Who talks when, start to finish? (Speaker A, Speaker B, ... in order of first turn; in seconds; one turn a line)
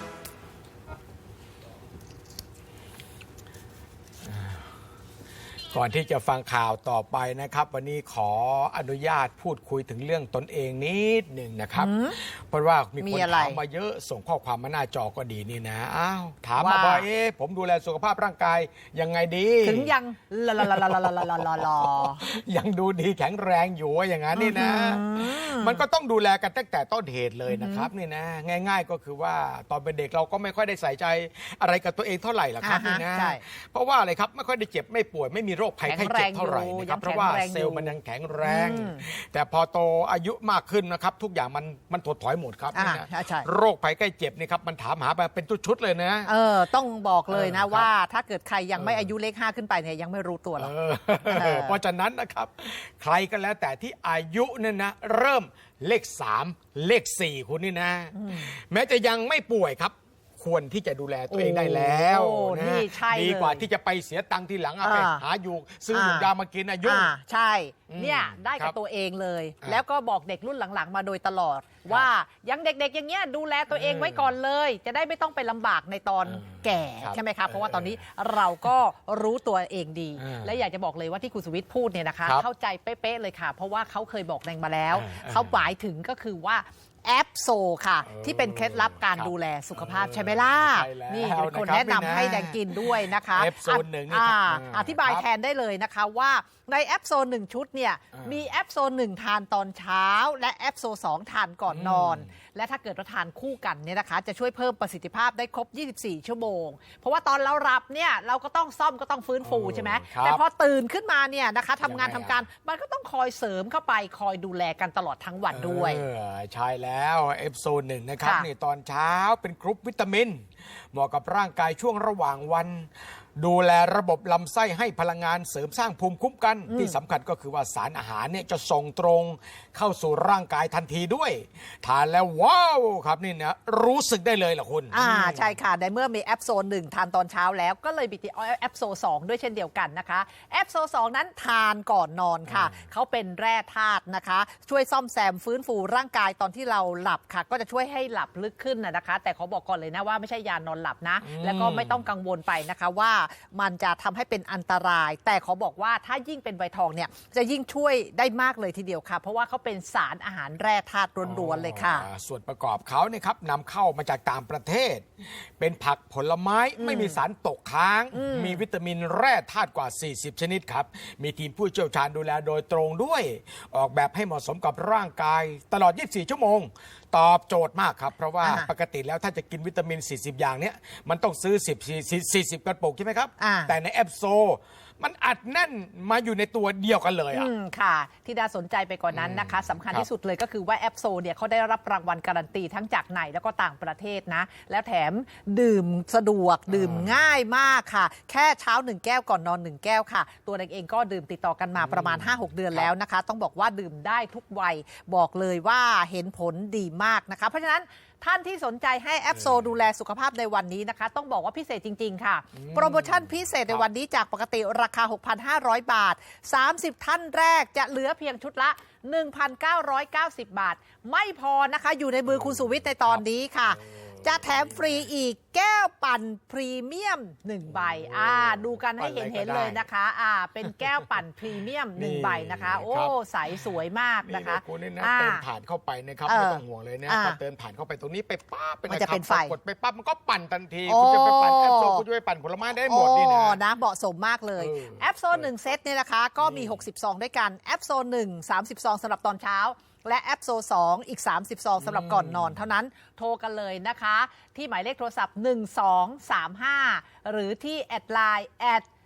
Speaker A: 4.3-4.6
Speaker A: 5.7-19.9
Speaker B: 11.8-12.2
Speaker B: 13.0-13.6
Speaker B: 16.6-17.1
Speaker B: 19.6-22.2
Speaker A: 20.6-46.3
Speaker B: 24.3-25.8
Speaker B: 27.5-27.9
Speaker B: 32.6-33.4
Speaker B: 35.8-39.0
Speaker B: 42.7-43.5
Speaker B: 46.2-50.7
Speaker A: 47.3-47.9
Speaker A: 48.8-49.1
Speaker A: 50.6-67.1
Speaker B: 51.2-51.8
Speaker B: 58.1-58.5
Speaker B: 61.3-63.6
Speaker B: 64.8-65.2
Speaker B: 65.9-66.3
Speaker B: 66.8-116.0
Speaker A: 67.9-68.8
Speaker A: 73.7-74.3
Speaker A: 76.2-78.0
Speaker A: 80.2-80.6
Speaker A: 84.9-85.7
Speaker A: 88.0-95.2
Speaker A: 98.1-98.5
Speaker A: 101.7-102.3
Speaker A: 109.4-110.4
Speaker A: 111.8-112.4
Speaker A: 115.5-135.6
Speaker B: 118.2-118.5
Speaker B: 126.7-127.0
Speaker B: 134.9-162.1
Speaker A: 142.5-142.8
Speaker A: 151.2-152.1
Speaker A: 161.2-187.5
Speaker B: 166.8-167.2
Speaker B: 168.1-168.6
Speaker B: 178.4-178.7
Speaker B: 183.4-183.7
Speaker B: 187.3-235.4
Speaker A: 189.1-190.1
Speaker A: 196.7-197.2
Speaker A: 201.8-202.9
Speaker A: 209.3-209.8
Speaker A: 212.5-213.8
Speaker A: 222.3-225.1
Speaker A: 227.7-229.9
Speaker A: 230.6-231.2
Speaker A: 231.9-233.6
Speaker A: 234.2-243.6
Speaker B: 236.3-237.4
Speaker B: 238.9-239.6
Speaker B: 240.8-242.0
Speaker B: 242.8-258.9
Speaker A: 244.6-245.5
Speaker A: 246.4-246.8
Speaker A: 251.8-252.7